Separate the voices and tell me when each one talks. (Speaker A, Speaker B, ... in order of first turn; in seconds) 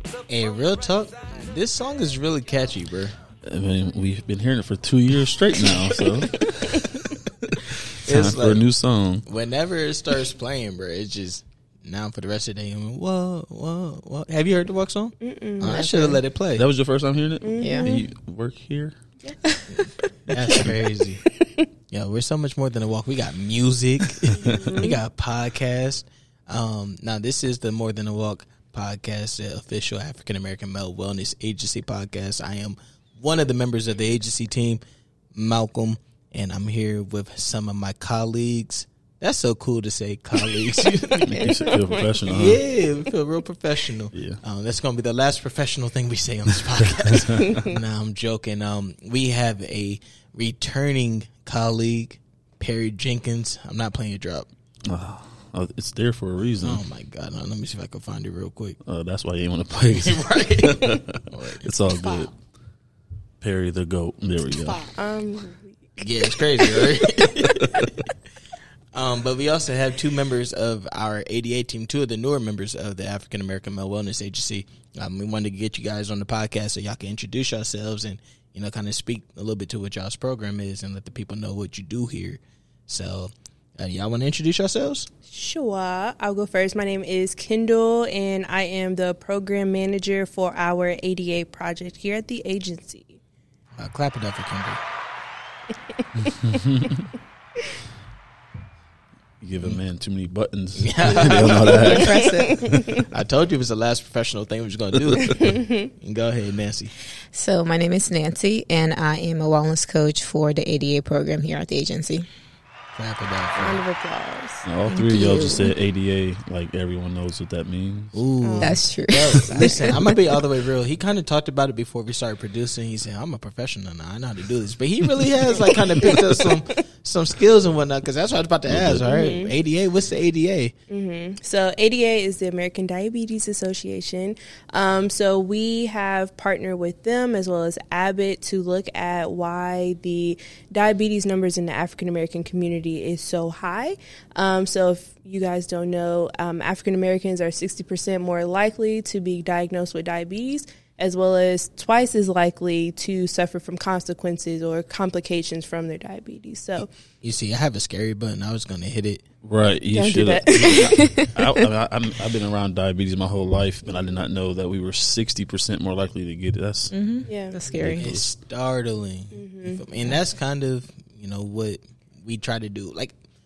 Speaker A: 0.3-3.1, 8.0-8.6, 9.2-16.6, 19.7-21.2, 21.9-34.8, 35.3-54.5, 56.6-58.8, 59.9-61.6, 66.0-68.0, 68.9-85.1, 93.8-94.8, 100.8-101.8, 102.9-106.9, 112.9-113.8, 118.1-130.7, 157.2-159.2, 167.8-173.1
Speaker B: 3.5-9.2, 16.6-18.9, 41.2-42.6, 44.1-44.4, 47.1-47.6, 54.9-56.8, 58.8-62.3, 63.4-64.8, 96.2-97.1, 99.4-102.2, 114.6-118.2, 128.7-129.1, 159.4-166.9, 167.7-168.3
Speaker C: 15.2-16.1, 17.4-18.0, 21.4-21.6, 24.3-25.0, 41.1-42.2, 47.5-47.7, 64.9-65.8, 85.3-93.2, 96.0-96.4, 101.7-103.0, 105.2-105.9, 113.5-114.7, 118.4-118.8, 126.0-126.6, 129.1-129.5, 130.9-156.9, 159.9-161.3, 167.3-167.6, 169.3-169.8
Speaker D: 15.6-16.2, 17.6-17.9, 62.0-62.3, 64.6-64.9, 101.7-102.7, 107.3-112.3, 114.9-115.8, 118.6-120.0, 166.9-168.1